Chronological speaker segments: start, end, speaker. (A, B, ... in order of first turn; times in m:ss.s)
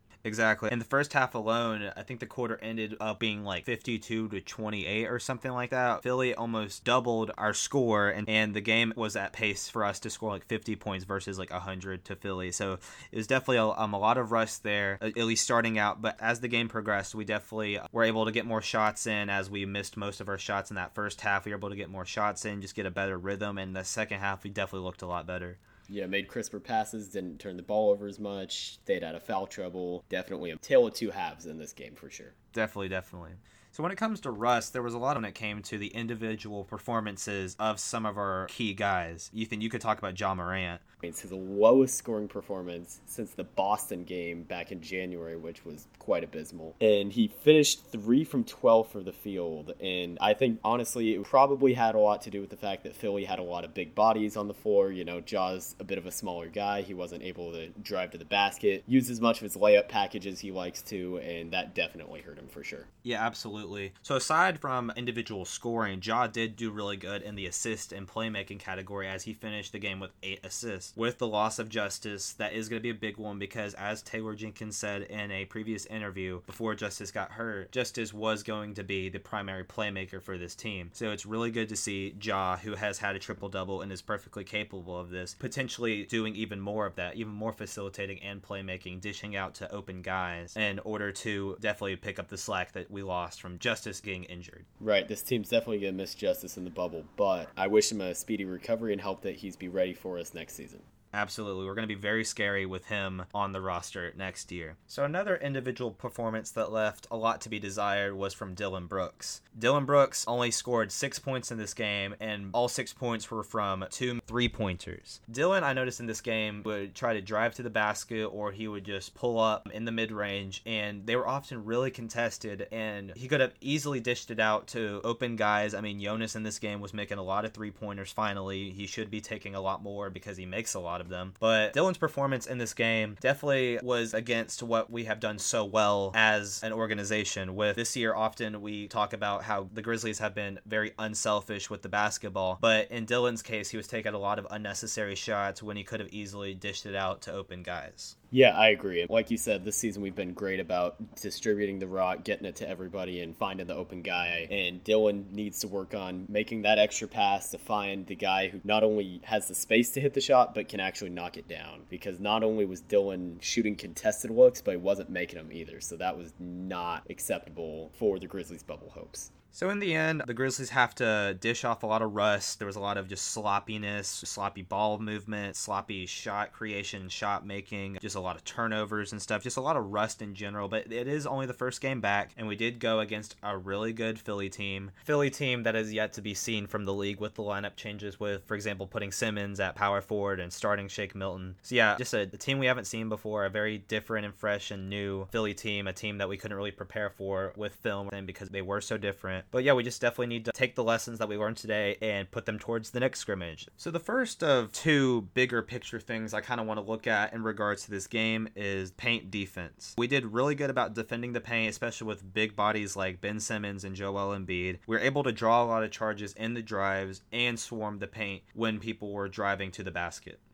0:00.2-0:25.6 A
0:25.9-0:32.3 B
0:32.5-0:40.8 A
0:41.0-1:02.9 B
1:03.0-1:34.6 A
1:34.8-1:40.8 B
1:41.1-2:28.1 A
2:28.3-2:49.3 B
2:49.5-3:40.4 A